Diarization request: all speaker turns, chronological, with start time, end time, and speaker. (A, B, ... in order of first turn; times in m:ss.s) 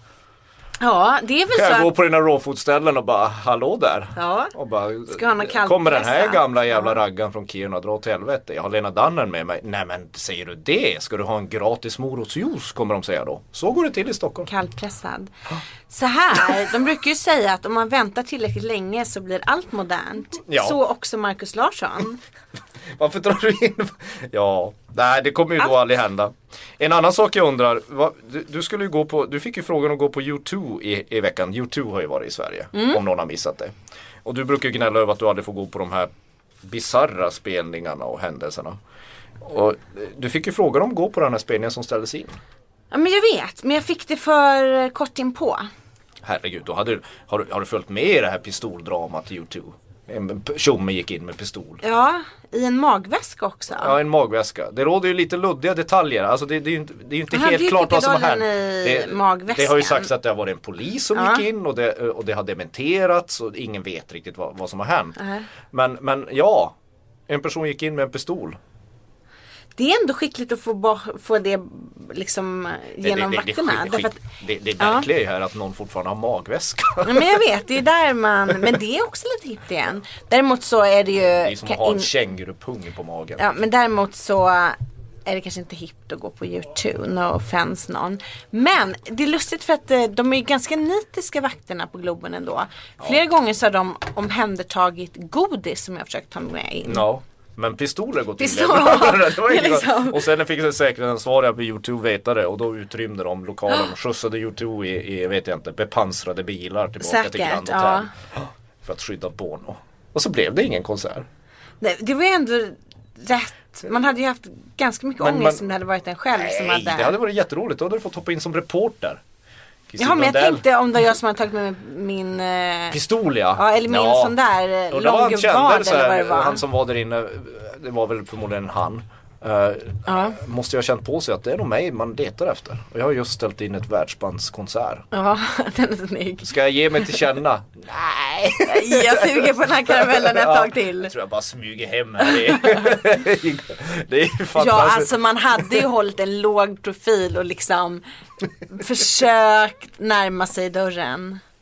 0:00.8-0:01.9 A
0:01.5-0:14.5 B
0:04.2-0:04.5 A
0:05.1-0:07.0 A
0:14.4-0:15.3 A
0:15.9-0:22.2 A
0:20.5-0:20.8 B
0:22.9-0:36.1 B
0:32.7-0:33.0 A
0:36.6-0:38.8 B
0:39.4-0:42.4 B
0:42.9-0:45.7 A
0:46.2-0:51.8 B
0:51.8-0:54.0 A
0:53.8-1:05.2 B
0:57.3-1:00.1 A
1:01.1-1:01.4 A
1:05.2-1:05.5 A
1:05.7-1:06.7 B
1:07.3-1:08.6 B
1:09.8-1:14.2 A
1:13.0-1:17.4 B
1:14.8-1:15.1 A
1:17.0-1:22.1 A
1:21.4-1:23.4 B
1:23.4-1:37.0 A
1:36.8-1:51.2 B
1:38.4-1:40.2 A
1:47.0-1:48.1 A
1:51.8-1:57.1 A
1:55.2-1:55.6 B
1:56.3-1:59.2 B
1:59.9-2:00.6 B
2:00.0-2:03.0 A
2:02.9-2:04.4 B
2:03.5-2:06.6 A
2:04.9-2:15.0 B
2:10.0-2:10.4 A
2:15.1-2:16.5 A
2:16.4-2:25.1 B
2:18.6-2:21.1 A
2:22.2-2:23.0 A
2:24.5-2:28.0 A
2:28.6-2:31.4 A